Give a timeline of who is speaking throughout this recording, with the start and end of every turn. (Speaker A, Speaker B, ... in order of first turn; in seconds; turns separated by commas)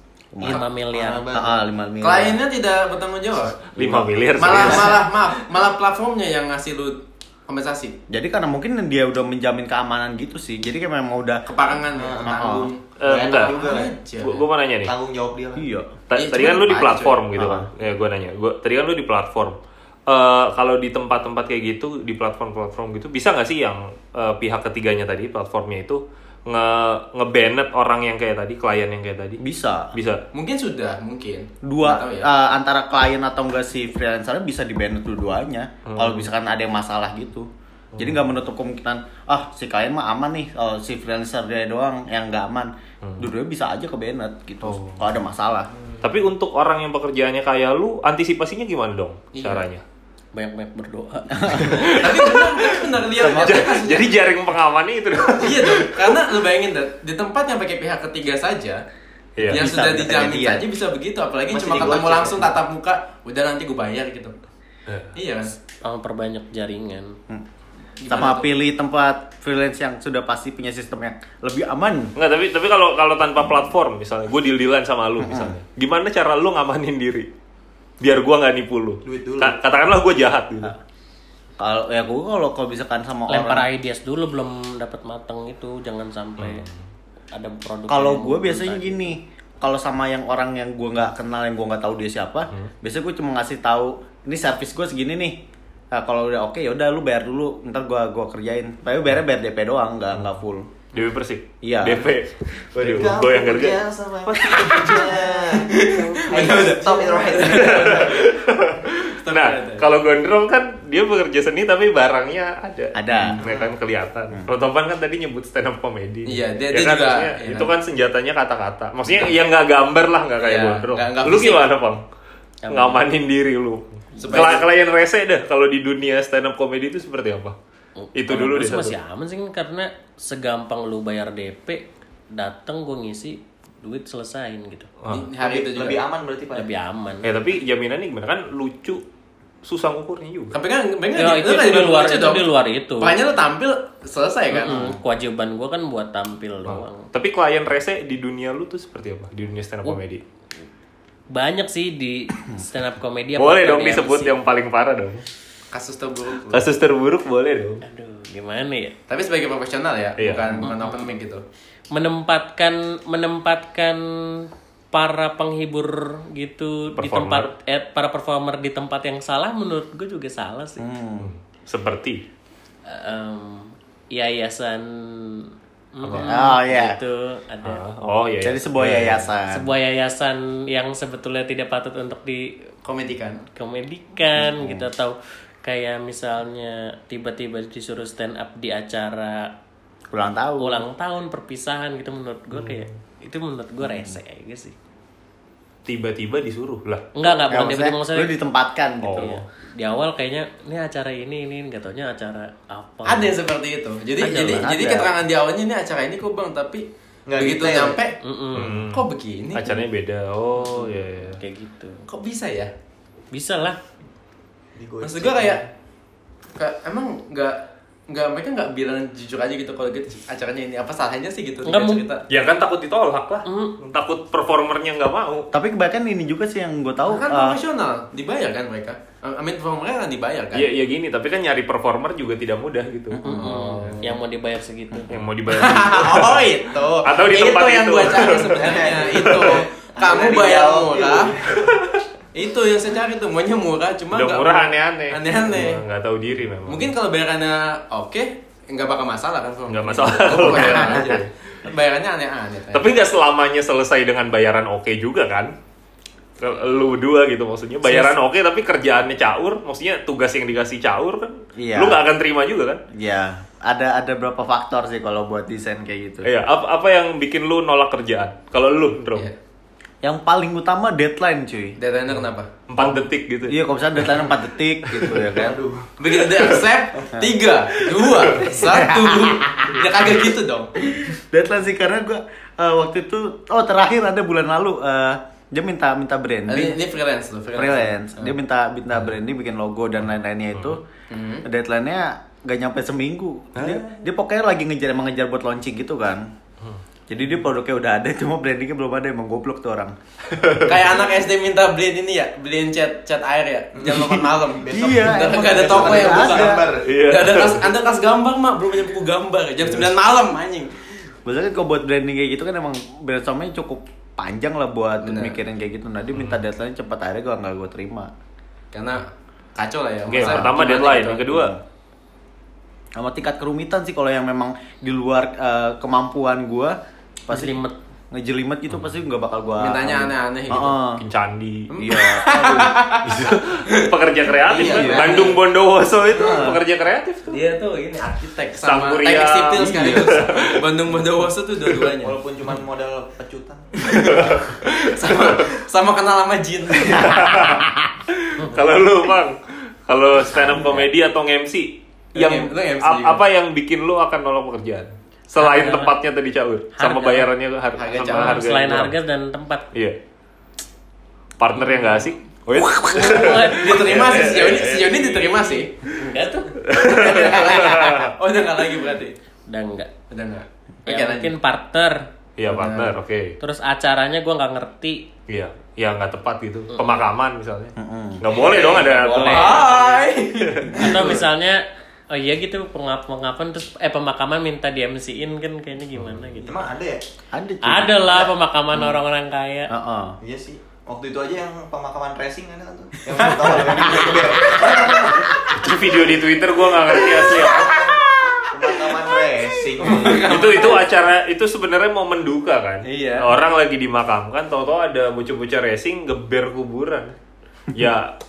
Speaker A: 0.3-0.6, Speaker B: 0.4-1.3, Speaker C: 0.9-1.5, Speaker A: 1.3-2.4, Speaker D: 2.0-3.6, Speaker E: 3.6-5.0, Speaker A: 3.8-4.9, Speaker D: 4.4-8.0, Speaker A: 8.1-11.4, Speaker D: 11.5-14.4, Speaker C: 11.9-13.9, Speaker A: 12.3-12.7, Speaker E: 13.0-13.6, Speaker E: 14.2-14.9, Speaker C: 14.8-15.7, Speaker A: 15.6-16.0, Speaker E: 16.1-19.6, Speaker D: 16.1-17.2, Speaker A: 16.6-17.7, Speaker E: 20.1-29.4, Speaker A: 29.4-29.9, Speaker E: 29.9-30.2, Speaker D: 30.3-32.3, Speaker A: 31.6-45.7, Speaker E: 35.9-36.3, Speaker E: 37.9-38.2, Speaker E: 43.0-43.3, Speaker E: 44.6-45.0, Speaker E: 46.0-49.8, Speaker D: 49.3-49.6, Speaker B: 50.3-52.0, Speaker A: 51.4-51.9, Speaker E: 51.6-56.1, Speaker D: 51.8-54.1, Speaker A: 53.2-53.6, Speaker D: 55.4-58.8, Speaker E: 59.4-59.6, Speaker D: 59.5-64.3, Speaker A: 59.5-60.6, Speaker C: 61.5-62.5, Speaker E: 64.9-65.1, Speaker D: 65.1-65.5, Speaker B: 65.8-67.2, Speaker D: 68.0-68.5, Speaker A: 68.1-72.1, Speaker E: 72.2-77.3, Speaker A: 75.2-75.5, Speaker E: 78.0-80.7, Speaker C: 79.0-79.6, Speaker A: 81.6-83.7, Speaker B: 83.3-86.7, Speaker E: 86.4-86.8, Speaker B: 87.3-89.1, Speaker A: 87.9-95.4, Speaker A: 95.9-100.7, Speaker E: 100.9-105.1, Speaker A: 101.6-102.1, Speaker C: 102.8-108.3, Speaker D: 105.5-108.0, Speaker E: 107.4-122.0, Speaker D: 109.1-109.9, Speaker A: 112.9-113.4, Speaker C: 113.3-113.7, Speaker D: 116.2-117.7, Speaker D: 120.4-121.6, Speaker B: 122.6-123.0, Speaker E: 122.7-127.5, Speaker B: 124.2-124.4, Speaker D: 124.2-124.7, Speaker B: 128.0-134.9, Speaker E: 128.1-128.9, Speaker E: 135.0-135.3, Speaker D: 135.1-136.0, Speaker C: 135.4-136.7, Speaker B: 136.5-137.3, Speaker E: 137.2-139.0, Speaker E: 139.6-140.6, Speaker D: 140.5-142.5, Speaker B: 141.2-143.1, Speaker D: 143.0-144.8, Speaker B: 144.5-147.1, Speaker A: 144.7-145.0, Speaker E: 146.7-150.2, Speaker B: 151.3-154.4, Speaker E: 153.3-155.2, Speaker D: 155.7-156.7, Speaker E: 156.5-157.8, Speaker B: 157.8-158.9, Speaker D: 159.1-161.4, Speaker E: 160.2-160.6, Speaker B: 160.6-161.1, Speaker B: 161.9-170.8, Speaker E: 167.0-167.5, Speaker A: 170.8-171.3, Speaker E: 171.2-172.2, Speaker B: 172.8-177.8, Speaker E: 176.0-176.4, Speaker A: 176.1-177.0, Speaker E: 177.6-179.3, Speaker A: 178.4-179.7, Speaker B: 179.5-182.7, Speaker D: 182.8-183.4, Speaker B: 183.5-189.5, Speaker A: 184.3-184.9, Speaker A: 190.1-190.8, Speaker B: 190.6-194.7, Speaker E: 192.5-192.9, Speaker A: 193.8-194.2, Speaker E: 195.8-197.1, Speaker B: 197.1-198.3, Speaker A: 197.5-199.4, Speaker E: 199.0-199.4, Speaker B: 199.2-203.3, Speaker D: 203.0-209.8, Speaker B: 204.2-204.7, Speaker A: 204.2-205.1, Speaker C: 207.3-208.0, Speaker B: 208.2-208.7, Speaker E: 208.5-211.4, Speaker B: 210.6-212.0, Speaker D: 212.1-212.7, Speaker B: 213.3-213.8, Speaker C: 214.8-215.7, Speaker D: 215.0-215.6, Speaker D: 216.6-222.2, Speaker B: 221.7-222.1, Speaker E: 222.3-225.5, Speaker B: 223.4-223.8, Speaker A: 225.5-227.6, Speaker D: 227.1-230.7, Speaker E: 230.5-234.0, Speaker A: 233.1-233.5, Speaker B: 233.2-235.2, Speaker D: 233.2-234.2, Speaker E: 235.1-239.6, Speaker D: 235.5-241.4, Speaker C: 238.6-241.7, Speaker E: 241.6-242.0, Speaker D: 242.3-245.8, Speaker E: 244.1-246.9, Speaker D: 246.7-252.9, Speaker E: 249.7-251.3, Speaker E: 252.7-255.5, Speaker E: 256.4-262.8, Speaker A: 261.6-262.0, Speaker A: 262.9-266.3, Speaker E: 266.2-269.3, Speaker A: 270.0-271.8, Speaker D: 271.8-272.5, Speaker E: 272.7-274.3, Speaker A: 273.5-275.6, Speaker E: 274.9-275.2, Speaker C: 275.3-276.1, Speaker D: 276.0-280.7, Speaker A: 278.6-279.8, Speaker A: 281.0-286.8, Speaker D: 286.5-288.4, Speaker A: 287.5-290.8, Speaker D: 291.1-291.4, Speaker A: 291.4-296.3, Speaker E: 293.5-293.9, Speaker A: 297.1-299.9, Speaker E: 300.3-300.8, Speaker D: 300.6-311.1, Speaker C: 303.7-306.9, Speaker A: 304.7-306.6, Speaker E: 306.8-307.7, Speaker A: 311.2-318.1, Speaker D: 315.0-315.4, Speaker E: 316.1-316.4, Speaker D: 318.7-321.5, Speaker E: 320.1-321.5, Speaker A: 320.2-320.5, Speaker A: 322.9-331.0, Speaker B: 327.3-327.8, Speaker D: 329.6-330.8, Speaker E: 331.0-331.9, Speaker D: 331.7-333.9, Speaker A: 331.8-332.8, Speaker E: 333.0-337.4, Speaker D: 334.4-335.4, Speaker C: 334.5-335.3, Speaker A: 336.1-336.6, Speaker D: 337.3-342.1, Speaker E: 338.6-340.6, Speaker C: 342.0-344.4, Speaker E: 343.9-345.4, Speaker D: 344.7-347.4, Speaker E: 346.8-358.9, Speaker B: 350.3-350.9, Speaker D: 352.1-353.2, Speaker B: 355.4-355.9, Speaker B: 356.8-357.3, Speaker D: 357.8-358.4, Speaker B: 358.1-359.7, Speaker E: 361.4-368.1, Speaker B: 361.6-361.9, Speaker B: 362.6-363.9, Speaker D: 363.4-365.7, Speaker B: 365.9-366.6, Speaker D: 366.7-369.1, Speaker B: 369.5-369.9, Speaker D: 370.1-371.3, Speaker B: 370.9-372.1, Speaker E: 372.4-373.4, Speaker D: 372.5-372.9, Speaker B: 373.4-375.1, Speaker E: 375.3-379.8, Speaker B: 376.8-377.0, Speaker A: 377.8-378.3, Speaker D: 378.3-381.2, Speaker B: 378.6-380.0, Speaker E: 380.4-380.9, Speaker B: 380.7-386.7, Speaker E: 385.9-386.3, Speaker C: 386.4-387.0, Speaker A: 387.3-389.0, Speaker B: 387.6-389.7, Speaker A: 389.7-390.2, Speaker C: 390.2-395.5, Speaker E: 395.5-397.9, Speaker C: 397.5-397.8, Speaker C: 398.5-400.8, Speaker D: 399.8-400.9, Speaker E: 400.2-407.1, Speaker D: 402.8-403.3, Speaker E: 407.7-408.1